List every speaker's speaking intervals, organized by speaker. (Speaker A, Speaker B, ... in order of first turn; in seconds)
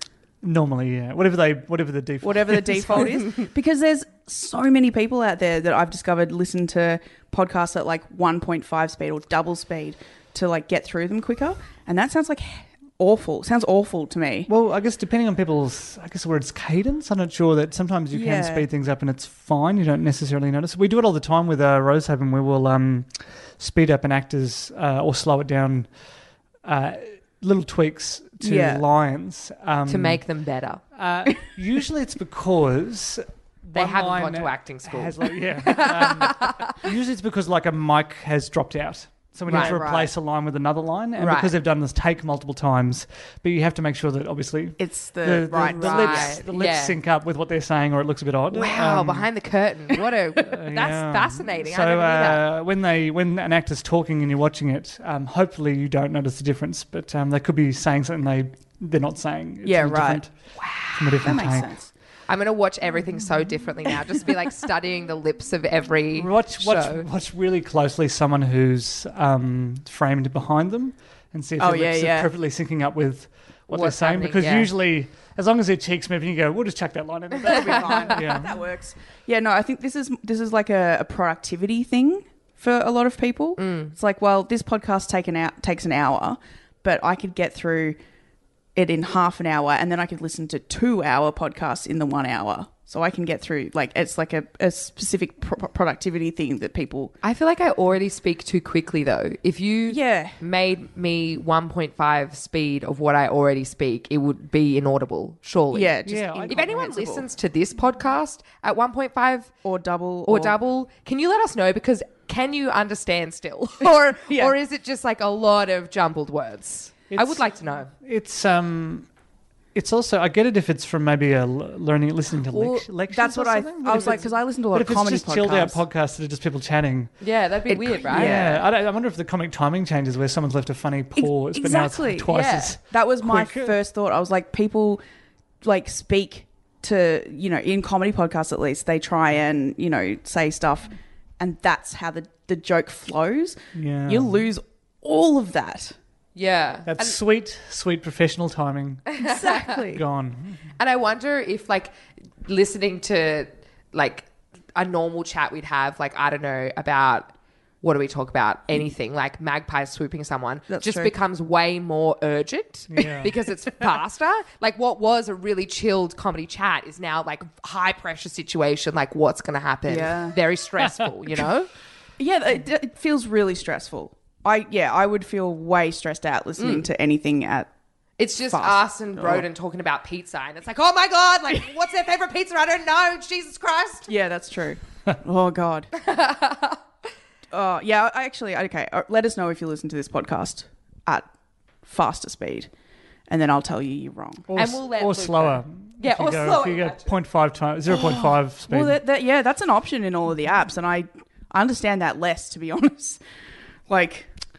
Speaker A: 0.4-3.2, 14.5-25.9, 26.6-30.2, 30.9-49.3, 50.4-61.7, 66.2-78.6, 106.1-106.7, 117.1-119.1, 119.8-127.2, 128.0-133.8, 143.8-144.4, 146.9-150.6, 162.9-163.3, 194.5-199.0
Speaker B: 2.2-14.5, 18.1-18.7, 28.4-28.8, 39.5-40.1, 44.8-46.4, 59.6-60.2, 61.2-61.9, 71.6-72.3, 77.4-88.0, 88.8-97.1, 99.9-100.4, 105.7-107.3, 109.6-110.5, 114.3-114.5, 123.1-125.8, 127.7-128.6, 131.2-135.0, 135.6-146.0, 149.2-150.0, 160.7-161.1, 169.9-170.4, 172.2-177.7, 178.5-179.5, 184.1-185.9, 187.5-191.3, 191.8-192.7, 193.3-194.5, 197.9-203.2, 203.9-204.3
Speaker C: 29.9-30.8, 33.8-36.7, 39.5-39.8, 41.2-41.5, 45.7-47.0, 48.5-52.5, 60.6-61.4, 62.3-67.1, 73.7-74.7, 77.5-78.1, 83.6-83.9, 97.2-106.0, 106.5-109.5, 110.3-117.9, 122.5-122.8, 124.0-124.2, 127.2-128.5, 132.3-132.7, 146.3-147.2, 149.2-149.6, 150.8-151.9, 152.4-171.7, 176.6-176.9, 178.2-184.1, 186.0-186.8, 194.6-197.1